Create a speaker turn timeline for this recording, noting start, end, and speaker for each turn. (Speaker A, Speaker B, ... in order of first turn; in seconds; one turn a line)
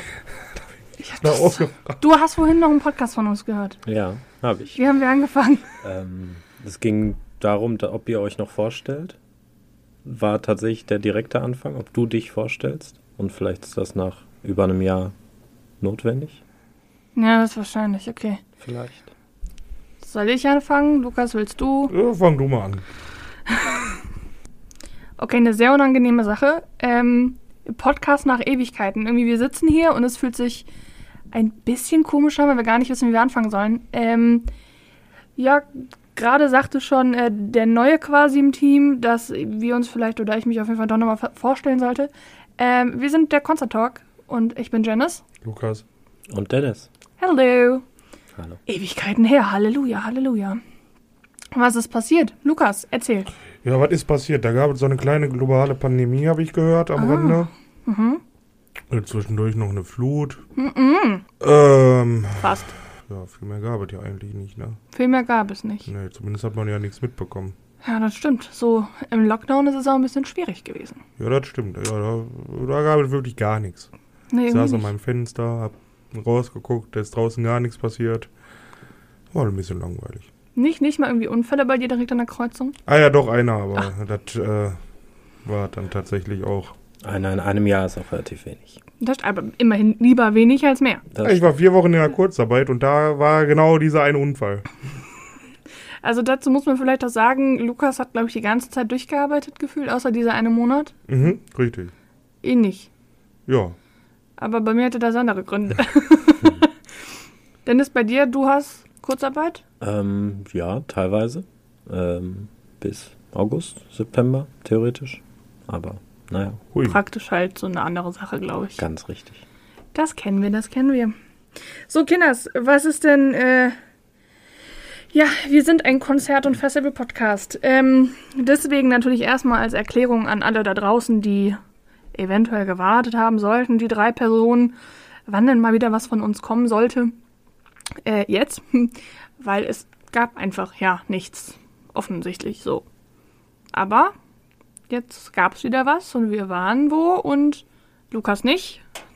Speaker A: 1.0-3.8
Speaker B: 1.2-2.0
Speaker C: 3.9-4.8
Speaker A: 4.8-5.8
Speaker C: 5.8-9.2
Speaker C: 10.0-15.1
Speaker C: 15.8-16.4
Speaker A: 17.1-18.4
Speaker C: 18.6-19.1
Speaker A: 20.0-21.9
Speaker B: 21.9-22.8
Speaker A: 23.5-24.0
Speaker A: 25.2-30.7
Speaker A: 31.3-34.5
Speaker A: 35.4-45.2
Speaker B: 45.4-45.8
Speaker C: 46.3-46.9
Speaker A: 47.2-47.9
Speaker A: 48.7-50.6
Speaker A: 51.5-53.3
Speaker B: 53.6-57.5
Speaker A: 57.0-58.2
Speaker B: 58.9-60.4
Speaker A: 60.6-61.2
Speaker B: 61.4-64.8
Speaker A: 62.4-62.7
Speaker A: 64.9-65.9
Speaker B: 65.9-67.5
Speaker A: 67.8-71.0
Speaker B: 71.2-73.9
Speaker A: 74.3-74.9
Speaker B: 74.5-78.3
Speaker B: 79.3-80.3
Speaker A: 80.5-82.8
Speaker B: 82.9-84.8
Speaker B: 85.5-86.8
Speaker C: 87.0-88.8
Speaker A: 89.0-91.1
Speaker C: 91.1-91.5
Speaker B: 91.2-94.7
Speaker A: 96.0-101.0
Speaker B: 101.1-101.9
Speaker A: 102.4-102.9
Speaker B: 103.5-103.8
Speaker A: 104.4-106.7
Speaker A: 107.7-109.6
Speaker C: 109.8-116.6
Speaker B: 116.7-117.0
Speaker A: 116.8-118.8
Speaker C: 118.8-119.4
Speaker A: 119.9-121.2
Speaker A: 121.9-123.8
Speaker A: 125.1-131.6
Speaker A: 132.1-134.8
Speaker A: 135.3-137.1
Speaker A: 138.0-142.8
Speaker A: 143.7-144.2
Speaker A: 144.9-148.8